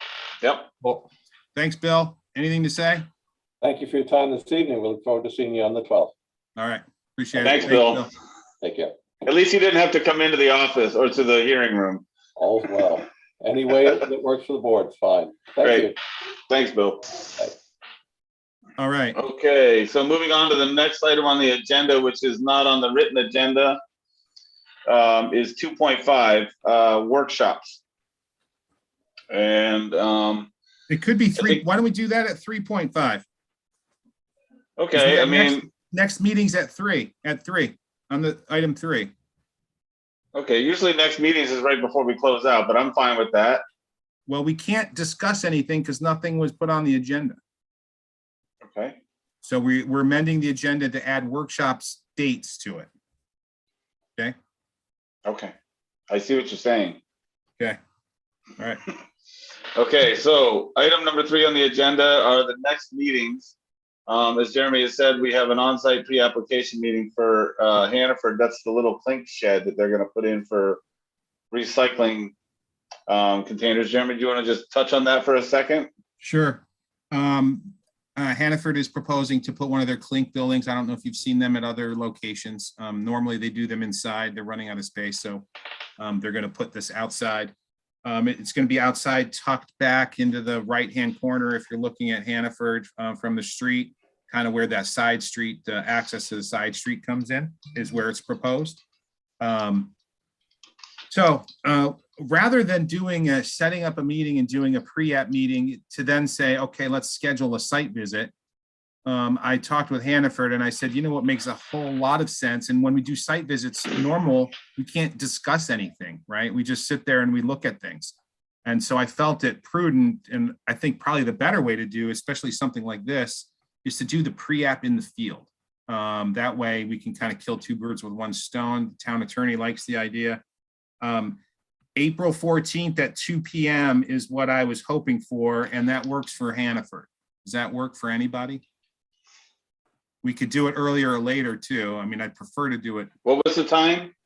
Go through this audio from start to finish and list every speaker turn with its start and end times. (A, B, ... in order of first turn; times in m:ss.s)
0:01.6-0:03.1 A
0:03.6-0:06.1 B
0:06.6-0:08.1 A
0:07.4-0:08.0 C
0:08.6-0:08.9 B
0:09.2-0:12.0 C
0:12.4-0:16.0 B
0:15.6-0:15.9 C
0:16.5-0:17.2 C
0:18.8-0:19.2 A
0:19.2-0:23.8 C
0:24.9-0:27.8 C
0:29.3-0:30.5 C
0:30.9-0:33.2 A
0:34.8-0:35.7 C
0:34.9-0:39.1 A
0:40.3-0:43.6 C
0:44.3-0:47.4 A
0:48.6-0:49.0 C
0:49.4-0:52.9 A
0:55.2-0:55.5 C
0:56.1-0:57.0 C
0:59.8-1:03.6 C
1:04.1-1:10.8 C
1:11.5-1:12.3 C
1:13.1-1:15.9 C
1:16.2-1:25.4 A
1:26.0-1:27.5 A
1:28.0-1:38.8 A
1:39.4-1:39.9 A
1:41.1-1:48.3 A
1:49.1-2:10.4 A
2:11.0-2:11.4 A
2:12.0-2:18.6 A
2:20.2-2:23.1 A
2:23.2-2:24.1 C